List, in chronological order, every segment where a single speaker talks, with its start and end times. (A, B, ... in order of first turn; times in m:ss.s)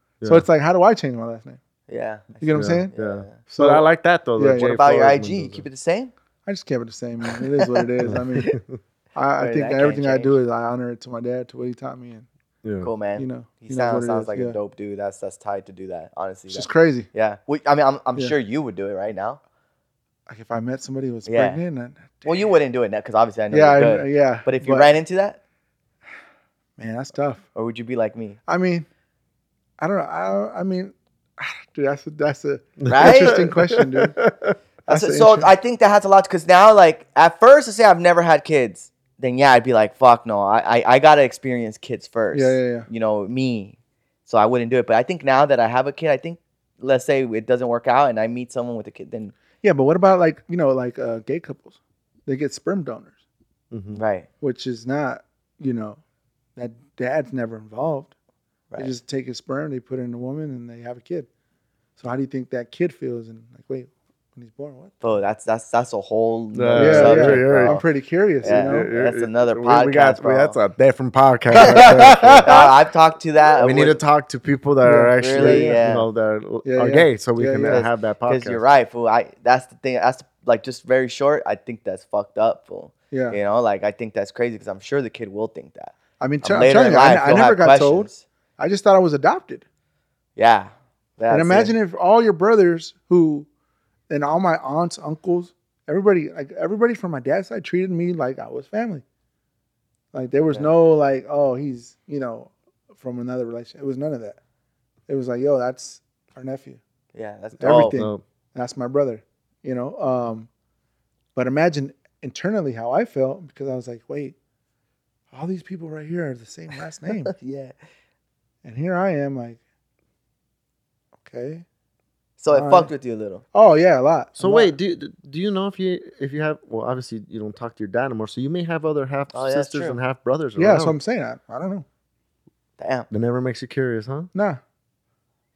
0:00.2-0:00.4 A
0:00.2-0:01.6 B
0:01.9-0:03.4 C
0:02.4-0:02.9 B
0:02.5-0:05.6 A
0:03.5-0:04.8 B
0:04.5-0:06.1 C
0:06.4-0:08.6 B
0:08.0-0:08.7 A
0:09.1-0:12.2 B
0:09.4-0:10.4 C
0:12.6-0:12.9 A
0:12.8-0:19.4 C
0:13.2-0:14.6 B
0:16.5-0:17.1 B
0:20.3-0:22.3 B
0:21.2-0:21.6 C
0:22.2-0:25.4 C
0:23.5-0:24.9 B
0:26.8-0:27.4 B
0:27.5-0:28.4 C
0:28.5-0:28.9 B
0:29.8-0:34.2 B
0:32.8-0:34.5 A
0:32.9-0:33.4 C
0:34.8-0:35.5 B
0:34.9-0:49.3 C
0:42.3-0:42.9 B
0:49.6-0:51.7 B
0:52.2-0:53.1 B
0:53.7-0:54.0 A
0:53.9-0:54.3 C
0:54.4-0:56.0 B
0:56.6-0:58.1 B
0:58.7-0:59.0 C
0:58.8-1:01.3 B
1:02.0-1:05.0 B
1:05.0-1:07.8 C
1:06.5-1:07.8 A
1:06.7-1:08.9 B
1:08.4-1:10.6 C
1:08.4-1:12.5 A
1:11.5-1:12.7 B
1:11.5-1:14.0 C
1:13.6-1:18.6 A
1:14.8-1:15.8 B
1:15.2-1:16.1 C
1:16.6-1:17.8 B
1:17.6-1:28.2 C
1:23.1-1:23.4 B
1:26.2-1:29.6 B
1:30.4-1:31.7 C
1:31.3-1:33.5 B
1:34.1-1:39.0 B
1:40.1-1:44.4 B
1:45.1-1:46.8 B
1:47.1-1:48.0 C
1:47.6-1:50.5 B
1:47.7-1:48.2 A
1:51.3-1:54.3 B
1:55.3-1:57.3 B
1:57.2-1:57.7 C
1:58.6-1:59.6 B
2:01.2-2:01.6 B
2:02.4-2:03.4 C
2:02.5-2:02.9 B
2:03.5-2:04.8 B
2:04.4-2:11.0 A
2:09.3-2:10.0 C
2:10.6-2:11.8 B
2:12.8-2:13.1 C
2:13.1-2:14.3 A
2:14.3-2:14.6 B